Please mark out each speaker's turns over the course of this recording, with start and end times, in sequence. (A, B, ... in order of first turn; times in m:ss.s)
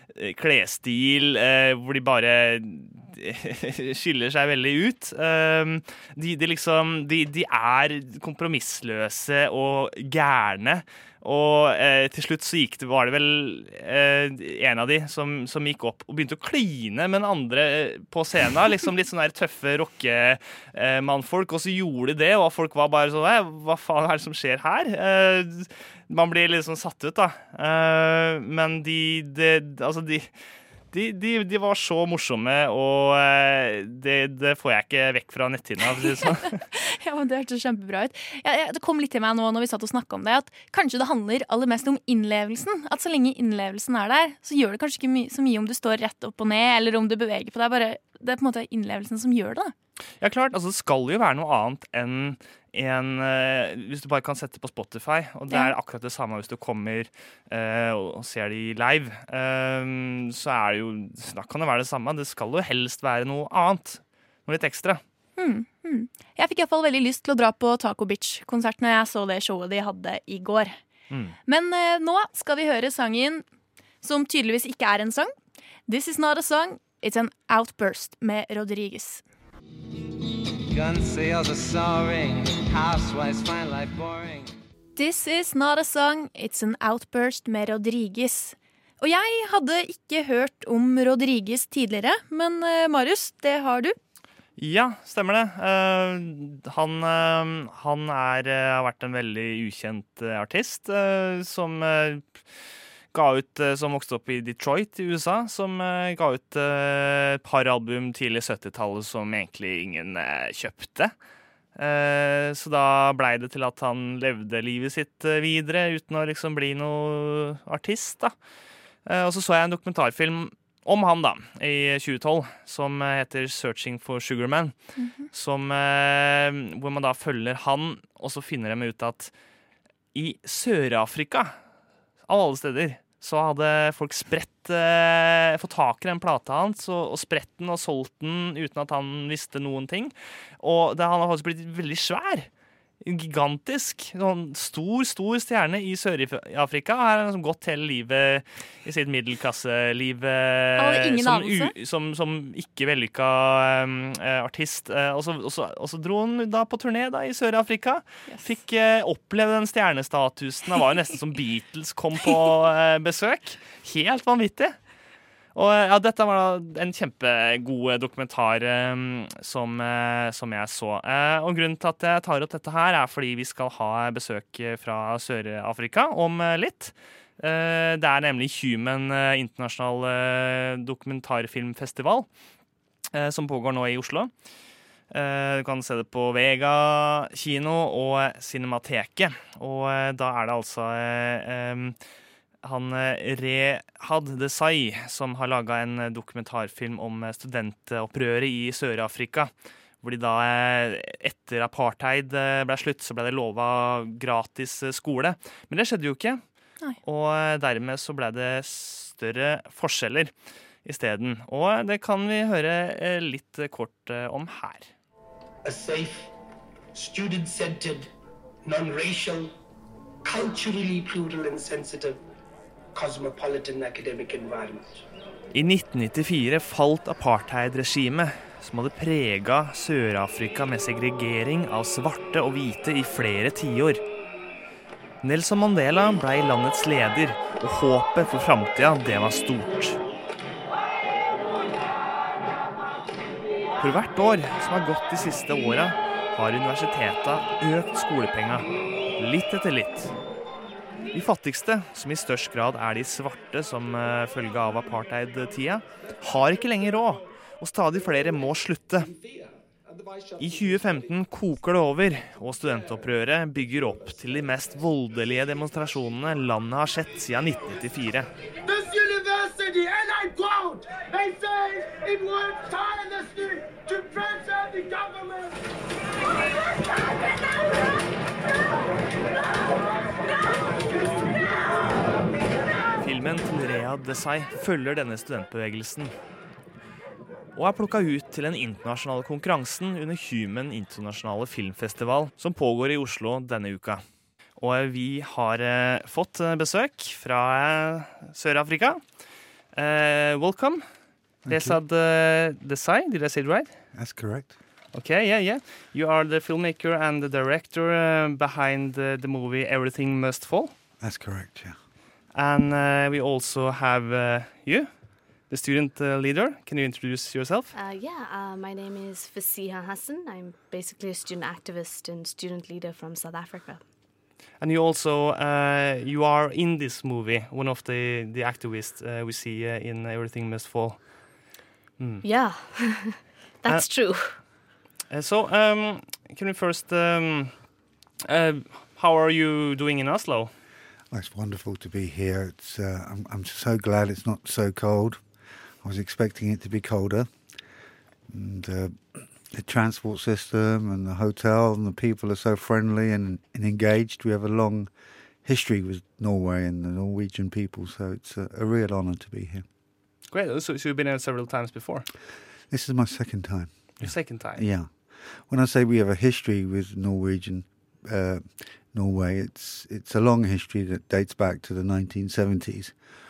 0:00.1-0:30.3 A
0:30.9-0:36.6 A
0:36.7-0:49.7 B
0:50.2-1:05.0 A
1:05.4-1:10.8 B
1:11.1-1:11.4 A
1:11.5-1:13.4 B
1:14.0-1:15.3 B
1:15.9-1:19.2 B
1:20.7-1:24.6 C
1:25.0-1:34.0 B
1:34.6-1:42.3 A
1:43.1-1:51.1 A
1:51.8-1:58.3 A
1:59.1-2:09.3 A
2:05.0-2:05.3 B
2:10.1-2:11.5 A
2:12.3-2:22.5 A
2:23.0-2:44.8 A
2:30.8-2:31.7 B
2:45.5-3:02.3 A
3:03.1-3:04.3 A
3:05.1-3:12.0 A
3:12.6-3:26.4 A
3:27.0-3:30.3 A
3:30.8-3:34.9 A
3:35.6-3:36.3 D
3:36.9-3:38.1 D
3:38.6-3:39.5 D
3:40.2-3:42.2 D
3:43.0-3:45.0 D
3:45.5-3:54.0 A
3:55.2-4:00.0 A
4:03.8-4:10.1 A
4:11.1-4:19.1 A
4:20.4-4:28.3 A
4:28.7-4:35.6 D
4:40.9-4:41.5 D
4:43.0-4:46.1 A
4:47.6-4:54.0 A
4:54.6-4:59.0 A
4:59.7-5:00.8 A
5:01.5-5:01.8 E
5:01.5-5:03.7 A
5:03.9-5:04.6 E
5:04.9-5:10.7 A
5:11.0-5:11.8 E
5:12.4-5:14.9 A
5:15.5-5:17.7 A
5:17.8-5:23.8 F
5:24.6-5:31.0 A
5:32.2-5:34.3 F
5:35.1-5:37.5 A
5:38.3-5:40.5 A
5:41.1-5:45.2 E
5:45.8-5:47.3 E
5:48.3-5:54.9 E
5:55.4-5:59.7 E
6:00.3-6:02.1 A
6:02.7-6:13.0 E
6:04.0-6:04.6 A